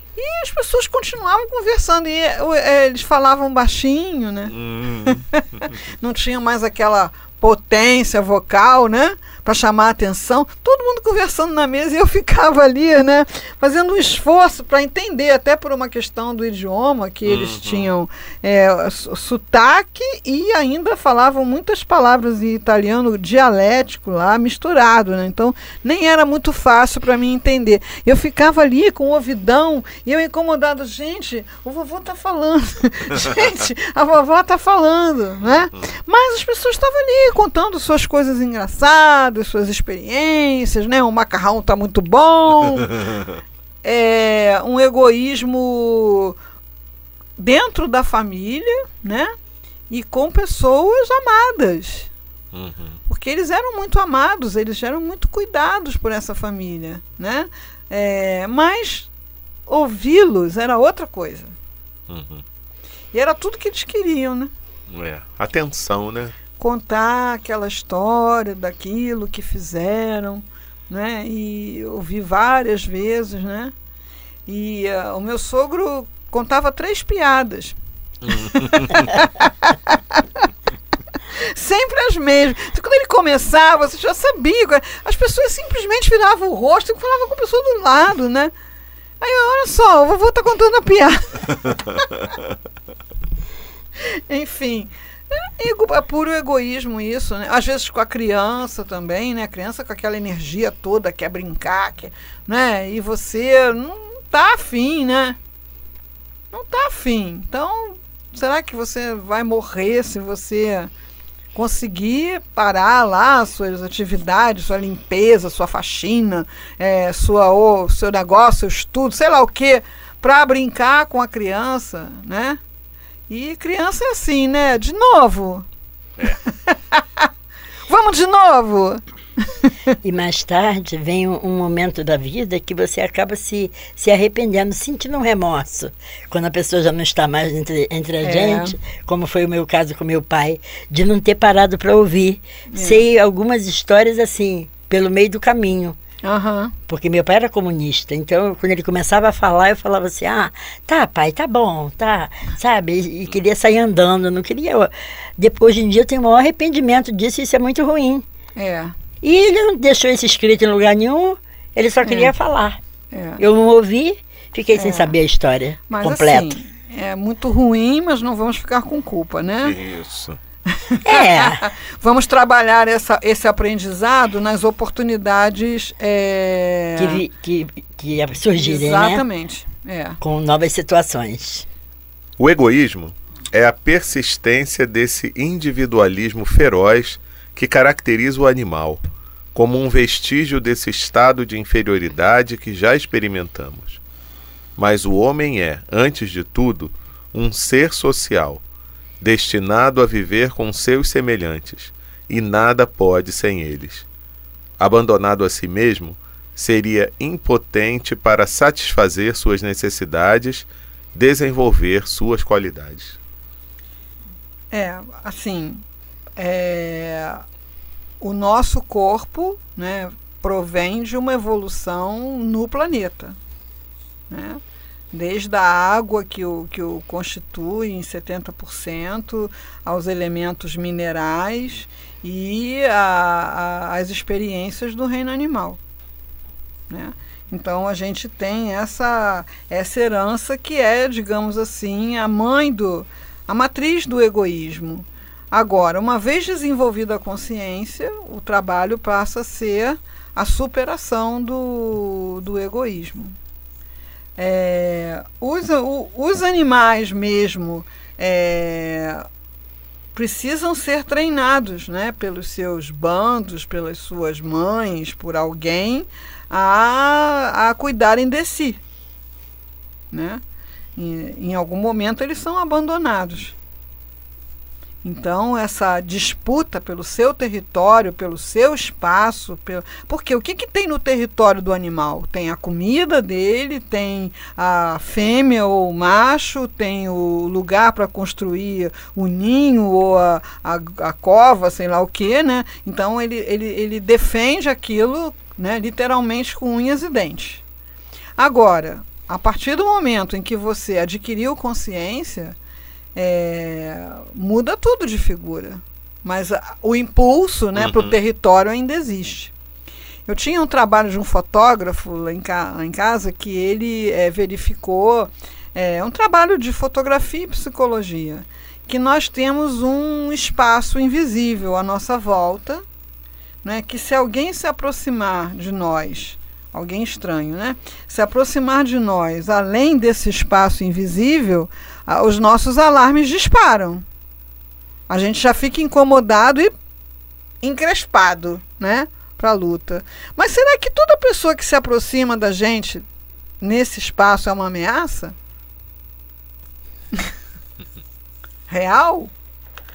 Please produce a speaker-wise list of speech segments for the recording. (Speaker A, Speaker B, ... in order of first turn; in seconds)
Speaker A: 0.2-43.0, 43.8-46.4, 47.4-49.3, 49.9-52.1, 53.1-59.1, 59.7-61.5, 63.1-64.5, 66.6-73.7, 74.5-77.8, 78.3-80.5, 81.3-88.5, 89.2-92.0, 94.0-105.4, 106.5-110.9, 111.5-122.6, 123.3-125.7, 126.5-127.2, 127.9-129.0, 138.2-138.8, 142.7-143.0, 146.2-146.7, 158.6-158.9, 162.0-162.3, 163.1-163.4, 164.8-165.2, 165.9-169.8, 170.8-177.2, 178.6-180.2, 214.7-215.8, 216.4-217.4, 218.2-223.4, 224.3-224.6, 225.1-235.8, 236.9-253.3, 254.4-259.2, 260.1-268.8, 270.1-270.4, 271.0-273.6, 275.0-297.6, 298.4-302.6, 303.1-309.5, 310.3-322.8, 323.6-334.0, 335.1-336.7, 337.6-343.1, 343.6-345.4, 348.7-349.3
Speaker B: 4.5-5.7, 17.3-17.9, 43.0-43.4, 52.5-53.0, 62.1-62.4, 64.9-66.3, 78.3-79.1, 169.6-170.4, 182.4-189.0, 189.5-194.0, 194.8-198.6, 199.2-204.1, 204.8-213.2, 307.8-308.1
Speaker C: 130.0-146.0, 146.9-158.3, 159.2-162.8, 163.4-166.5, 171.1-171.7, 177.0-179.2, 180.2-181.7